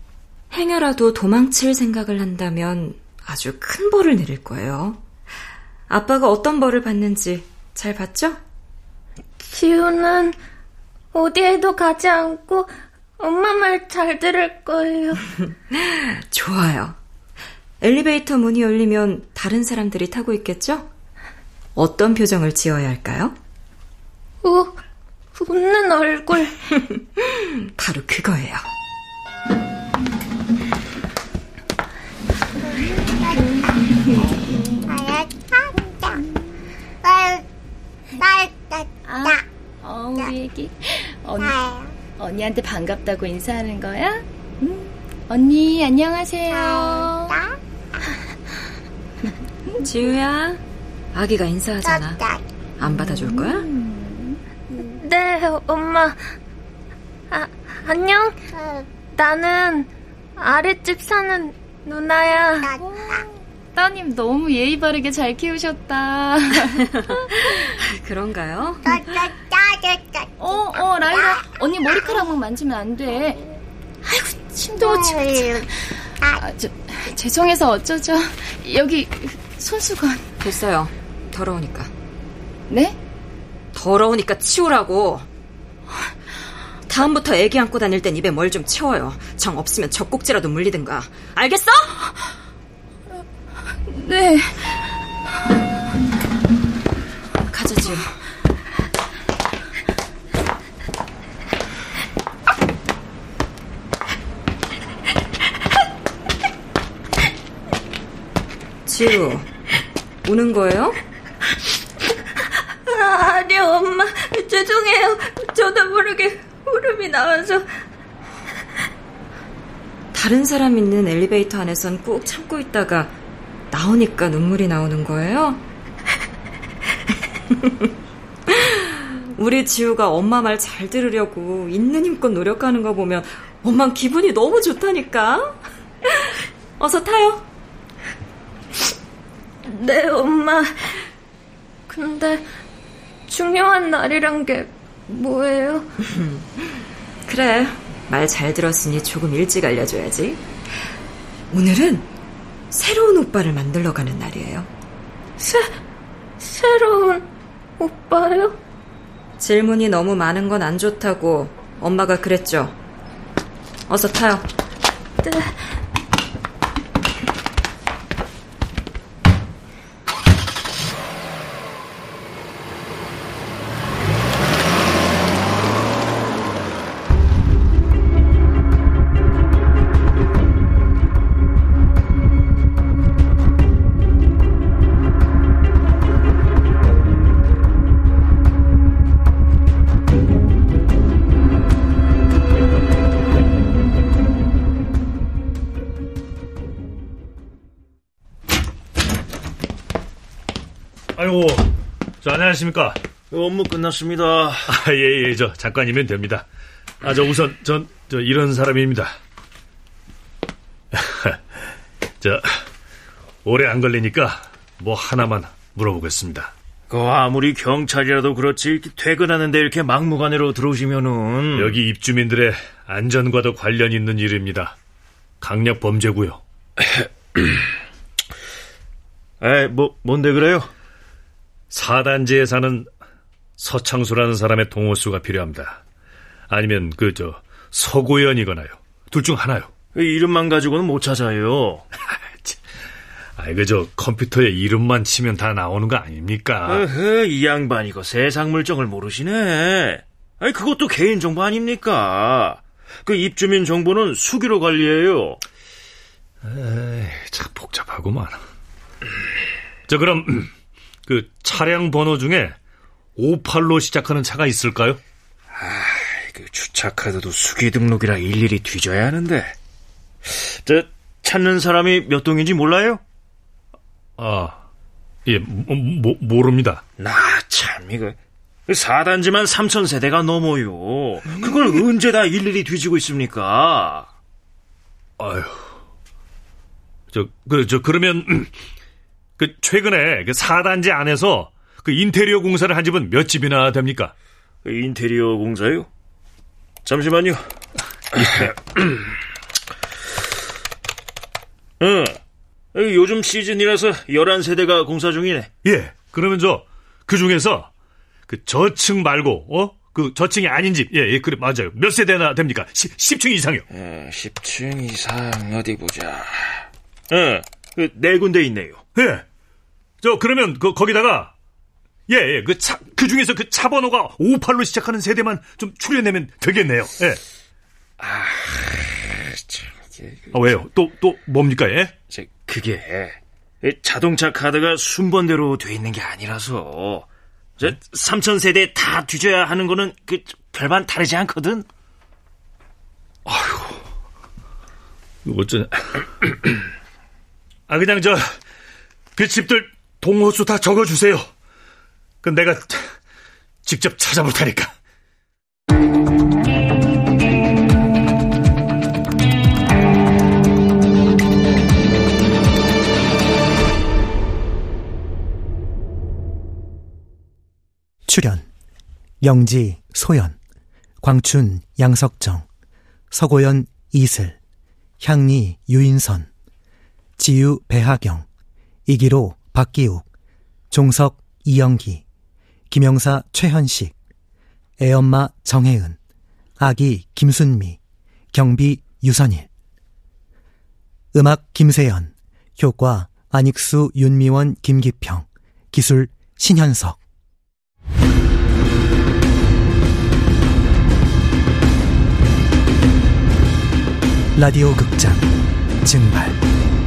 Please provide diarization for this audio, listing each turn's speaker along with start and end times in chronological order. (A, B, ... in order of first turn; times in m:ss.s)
0:00.5-0:05.0 A
0:05.9-0:08.4 A
0:09.4-0:10.4 B
0:11.1-0:15.2 B
0:15.7-0:17.0 A
0:17.8-0:20.9 A
0:21.8-0:23.4 A
0:24.4-0:24.8 B
0:25.4-0:26.6 B
0:27.2-0:28.7 A
0:38.2-0:38.5 C
0:39.0-0:47.6 C
0:49.8-0:50.6 A
0:51.1-0:53.7 A
0:53.4-0:54.4 C
0:54.7-0:56.3 B
0:57.3-0:58.4 B
0:59.1-1:02.8 B
1:03.8-1:06.8 C
1:07.4-1:09.3 A
1:10.4-1:20.2 C
1:20.4-1:21.9 A
1:22.7-1:23.0 C
1:23.7-1:25.3 A
1:26.9-1:32.0 A
1:33.9-1:34.7 C
1:37.5-1:38.1 A
1:48.9-1:49.5 A
1:50.2-1:51.0 A
1:52.9-1:57.7 B
2:00.1-2:03.1 A
2:03.7-2:05.6 A
2:08.5-2:17.5 A
2:19.7-2:21.1 B
2:21.9-2:22.4 B
2:23.3-2:25.9 B
2:26.1-2:26.5 A
2:27.3-2:30.5 A
2:31.5-2:32.1 A
2:32.7-2:34.7 A
2:35.4-2:35.7 B
2:36.4-2:37.3 B
2:37.8-2:38.6 B
2:39.4-2:42.8 A
2:43.9-2:44.5 A
2:45.2-2:45.8 B
3:21.2-3:21.7 D
3:22.2-3:23.0 D
3:23.3-3:24.7 E
3:24.7-3:26.5 D
3:27.0-3:29.2 D
3:30.9-3:31.4 D
3:32.2-3:32.5 D
3:33.4-3:36.5 D
3:36.9-3:41.8 E
3:41.5-3:44.8 D
3:45.4-3:46.4 D
3:49.4-3:50.7 E
3:51.7-3:52.9 D
3:53.6-3:55.8 D
3:56.5-3:59.7 D
3:59.9-4:01.9 E
4:02.1-4:02.6 D
4:03.4-4:06.9 D
4:06.7-4:15.4 E
4:16.4-4:18.4 D
4:19.9-4:20.5 D
4:21.1-4:22.6 D
4:23.2-4:25.0 D
4:25.5-4:29.6 E
4:30.2-4:33.0 E
4:34.2-4:34.6 D
4:35.3-4:36.8 D
4:37.0-4:44.1 E
4:45.2-4:45.6 D
4:47.1-4:48.5 D
4:49.4-4:54.1 D
4:54.6-4:55.9 E
4:56.8-4:57.4 E
4:58.2-4:59.1 E
5:01.8-5:02.2 E
5:02.7-5:05.5 E
5:05.6-5:07.7 D
5:08.3-5:13.6 D
5:13.7-5:18.8 E
5:19.0-5:19.2 D
5:20.0-5:21.3 D
5:22.1-5:27.2 D
5:28.0-5:30.6 E
5:30.3-5:31.9 D
5:32.1-5:37.1 E
5:37.6-5:41.7 E
5:43.3-5:43.8 D
5:45.2-5:46.6 D
5:47.7-5:48.2 D
5:49.2-5:51.3 D
5:52.2-5:52.8 D
5:53.6-5:54.7 D
6:08.1-6:08.5 F
6:09.2-6:10.4 F
6:11.0-6:12.5 F
6:13.1-6:14.4 F
6:15.0-6:16.3 F
6:17.2-6:18.3 F
6:18.9-6:20.0 F
6:20.7-6:22.0 F
6:22.7-6:24.0 F
6:24.8-6:26.0 F
6:26.6-6:27.8 F
6:28.3-6:29.5 F
6:31.1-6:37.0 F
6:44.4-6:45.3 F
6:45.8-6:46.4 F